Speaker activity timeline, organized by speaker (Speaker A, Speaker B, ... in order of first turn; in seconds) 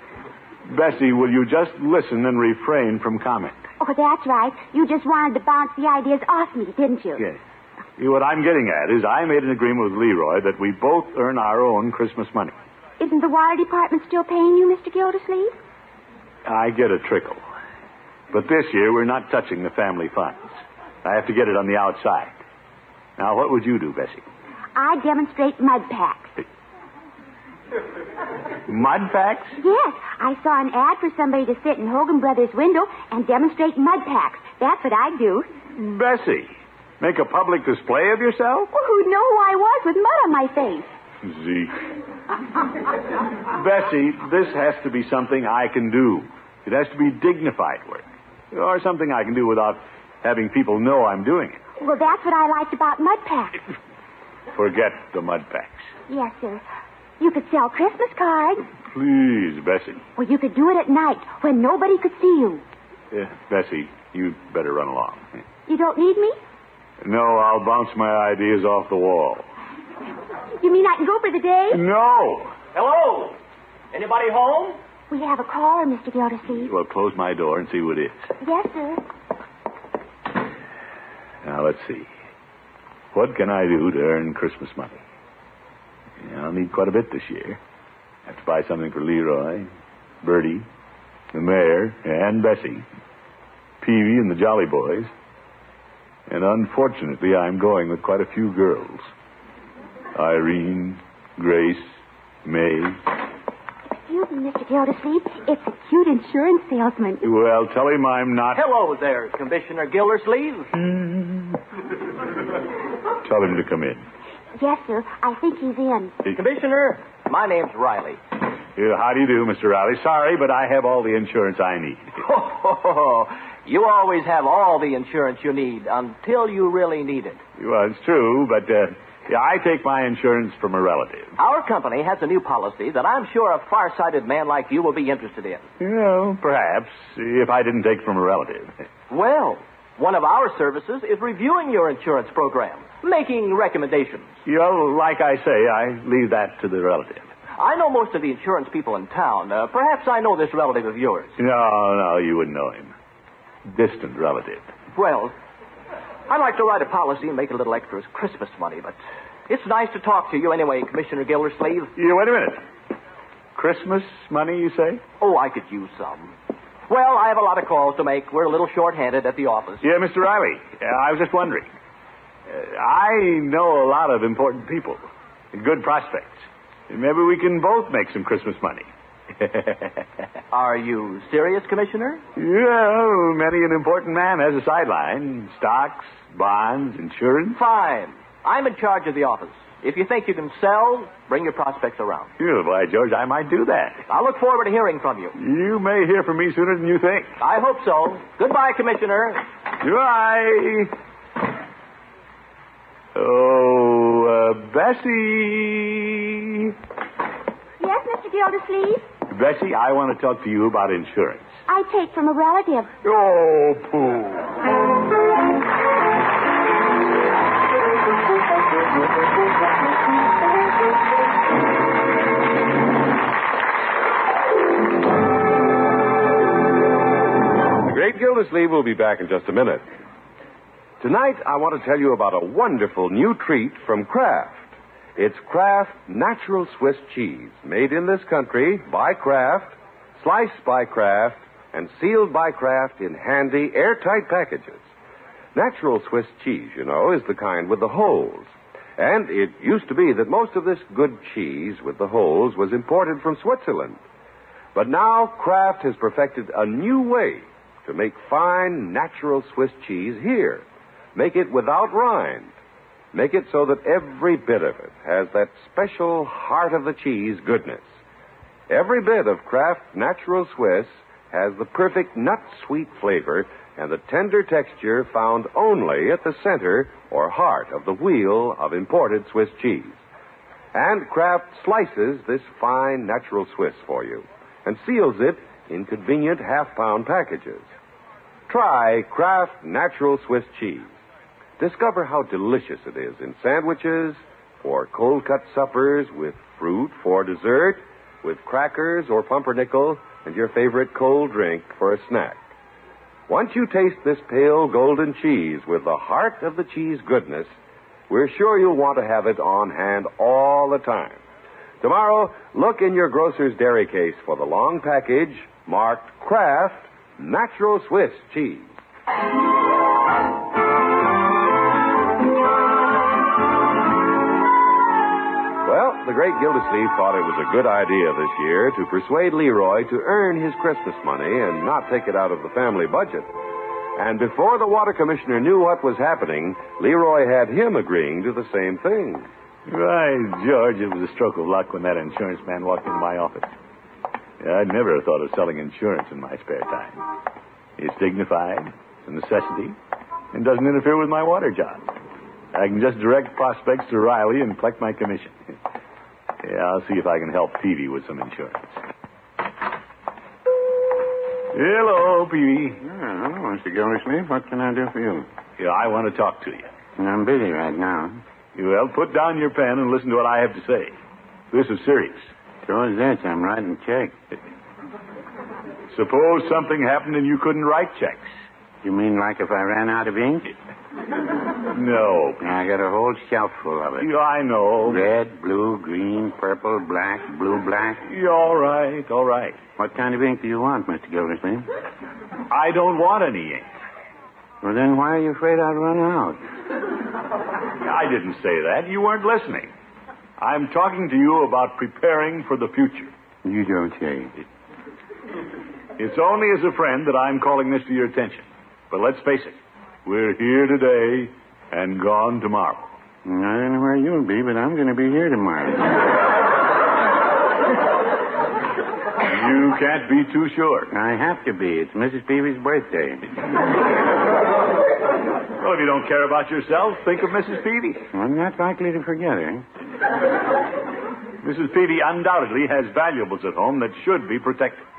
Speaker A: 0.7-3.6, 8.0-12.5, 16.4-17.4, 18.3-22.3, 23.2-24.2, 28.7-29.6, 35.7-38.7, 41.2-41.8, 43.5-51.6, 54.5-55.9, 58.9-60.0, 63.1-65.2, 67.0-69.5, 71.7-72.5, 76.6-78.2, 81.4-82.1, 83.1-85.0, 86.2-87.6, 88.3-89.7, 90.2-90.7, 91.3-92.8, 93.8-95.1, 96.3-99.0, 100.1-101.9, 102.4-103.0, 107.2-108.6, 110.7-111.6, 113.2-114.0, 118.8-122.2, 127.6-131.3, 135.8-138.7, 144.4-147.3, 151.4-152.9, 153.7-154.7, 161.9-162.6, 163.5-165.0, 169.8-171.7, 172.5-175.0, 175.5-178.9, 179.4-179.9, 182.3-187.6, 192.4-194.0, 195.3-197.3, 199.8-200.9, 203.1-206.7, 209.3-211.6, 213.0-214.5, 339.7-343.5, 344.4-347.0, 347.8-349.7, 350.3-351.8, 352.5-355.3, 356.4-358.7, 361.5-362.8, 365.6-366.7, 368.5-370.9, 371.5-372.3, 375.9-378.3, 381.7-382.6, 384.0-385.0, 388.1-389.6, 392.5-393.7, 397.8-399.7, 400.4-403.1, 406.0-412.9, 419.2-420.9, 425.6-428.0, 431.4-434.8
Speaker B: 3.8-7.2, 13.0-15.5, 24.7-26.3, 29.6-35.5, 38.7-40.9, 51.8-53.6, 56.1-56.6, 57.2-58.6, 60.2-62.6, 65.7-66.4, 70.6-71.8, 75.1-76.7, 78.4-79.0, 103.9-107.2, 114.6-116.1, 207.8-209.1, 211.7-212.9
Speaker C: 72.7-73.4, 73.9-74.8, 108.5-110.7, 116.3-118.2, 122.2-127.4, 131.4-135.6, 139.1-144.3, 147.6-151.3, 154.9-155.3, 156.3-159.0, 159.5-161.9, 165.2-166.3, 166.9-169.8, 180.5-182.2, 187.5-192.3, 194.1-195.3, 197.4-199.4
Speaker D: 227.8-229.8, 231.0-244.8, 245.5-254.0, 254.7-262.5, 263.1-267.9, 268.7-280.0, 280.7-287.7, 288.5-290.9, 291.6-302.4, 303.3-307.5, 308.1-311.2, 311.8-318.7, 325.6-333.3, 333.9-339.3
Speaker E: 362.8-365.2, 367.0-368.2, 372.6-374.1, 378.8-380.5, 382.4-384.1, 384.8-388.0, 389.8-391.7, 394.6-396.4, 403.4-404.3, 413.2-416.0, 420.9-423.3, 428.1-429.6